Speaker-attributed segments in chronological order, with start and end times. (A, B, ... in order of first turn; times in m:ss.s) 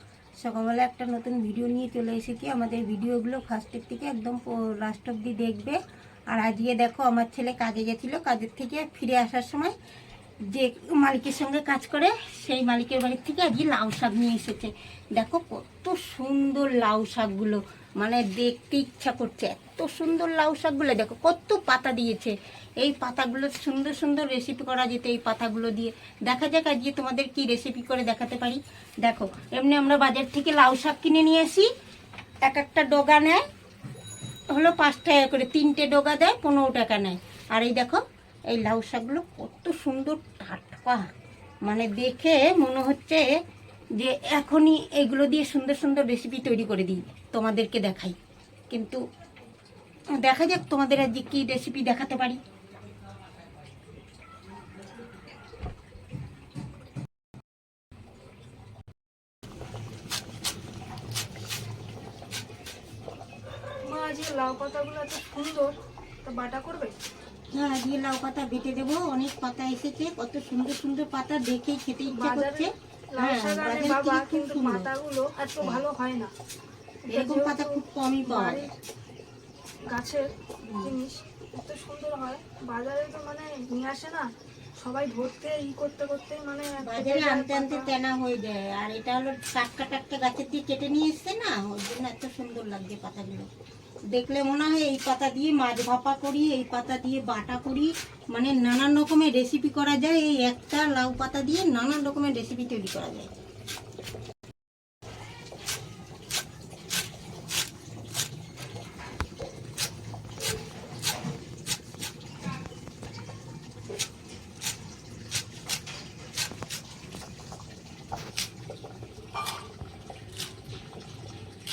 0:00.4-0:09.7 A
0:10.5-0:31.7 A
0:32.4-0:33.4 A
0:34.5-0:41.1 A
0:41.6-0:43.3 A
0:44.0-0:48.2 A
0:48.7-0:49.0 A
0:50.2-0:52.4 A
1:03.8-1:06.9 B
1:07.5-1:14.9 A
1:12.0-1:16.3 B
1:17.1-1:18.6 A
1:17.1-1:18.7 B
1:19.9-1:20.2 B
1:20.6-1:20.9 A
1:20.8-1:24.2 B
1:24.8-1:27.9 B
1:26.8-1:33.5 A
1:34.1-1:43.3 A